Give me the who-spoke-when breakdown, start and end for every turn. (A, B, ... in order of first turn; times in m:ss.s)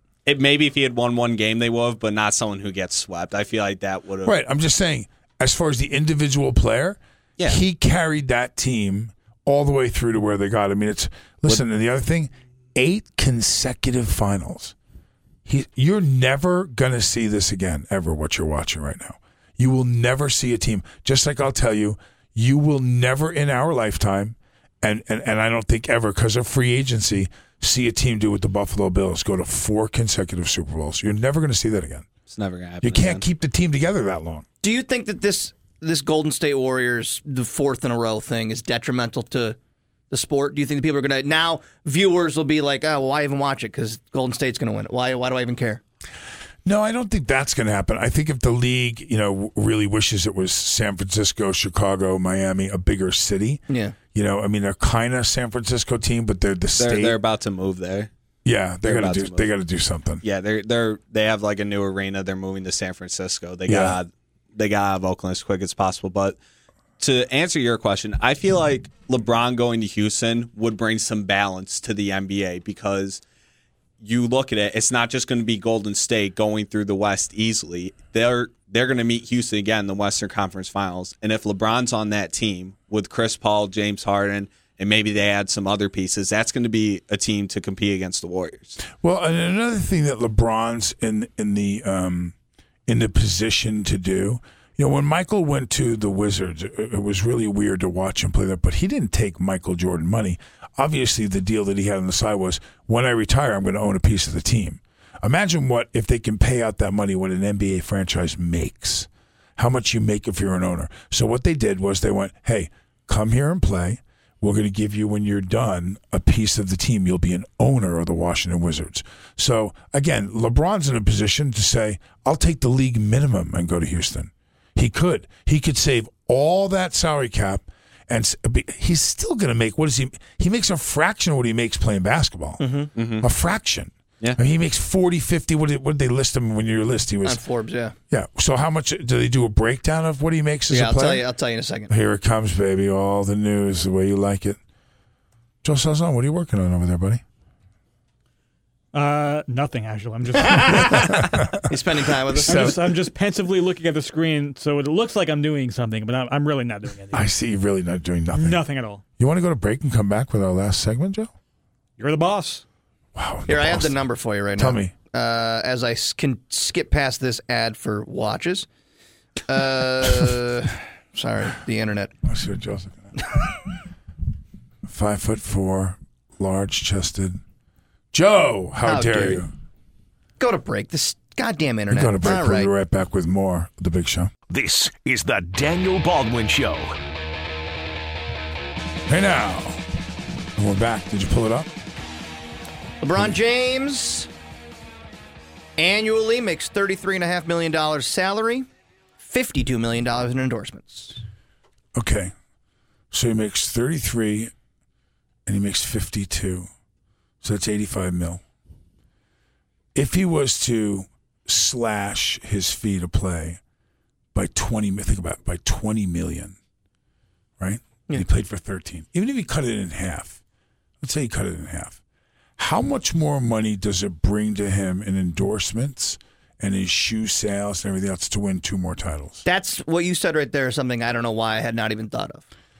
0:00.3-0:04.3 A
0:04.2-0:14.8 B
0:15.5-0:32.1 B
0:32.3-0:33.2 A
0:32.8-0:34.5 B
0:34.6-0:39.6 C
0:40.1-0:45.8 C
0:46.6-0:53.6 B
0:53.7-0:54.0 C
0:54.1-0:57.2 B
0:56.8-0:58.1 A
0:58.4-1:00.2 B
0:58.8-0:59.5 A
1:00.2-1:06.4 A
1:03.7-1:04.0 B
1:07.0-1:13.2 A
1:14.0-1:28.8 A
1:29.0-1:32.4 B
1:32.9-2:12.6 B
2:12.6-2:12.9 C
2:13.0-2:13.3 A
2:13.2-2:17.4 B
2:17.2-2:18.0 C
2:18.1-2:21.2 B
2:20.7-2:21.9 C
2:21.9-2:24.6 B
2:25.6-2:27.2 B
2:28.9-2:31.4 D
2:30.4-2:30.8 C
2:31.2-2:31.4 B
2:31.7-2:32.8 C
2:32.3-2:32.9 B
2:32.3-2:37.3 D
2:37.1-2:38.6 B
2:38.4-2:39.0 D
2:39.2-2:41.3 B
2:42.0-2:42.6 D
2:43.2-2:44.0 B
2:43.5-2:48.7 C
2:44.6-2:44.9 B
2:49.5-2:52.1 C
2:52.2-2:53.1 B
2:54.9-2:57.4 B
2:58.1-2:59.5 B
2:58.8-2:59.4 C
3:00.4-3:02.7 C
3:01.9-3:04.3 B
3:04.5-3:07.0 E
3:09.1-3:09.8 B
3:10.6-3:11.7 B
3:13.0-3:14.3 C
3:15.8-3:18.7 C
3:19.2-3:21.2 C
3:22.0-3:22.3 B
3:23.1-3:24.5 B
3:25.5-3:26.7 B
3:27.4-3:28.4 B
3:29.9-3:33.6 B
3:34.3-3:36.6 B
3:37.6-3:40.4 B
3:41.0-3:42.0 B
3:42.6-3:49.4 B
3:49.4-3:52.4 C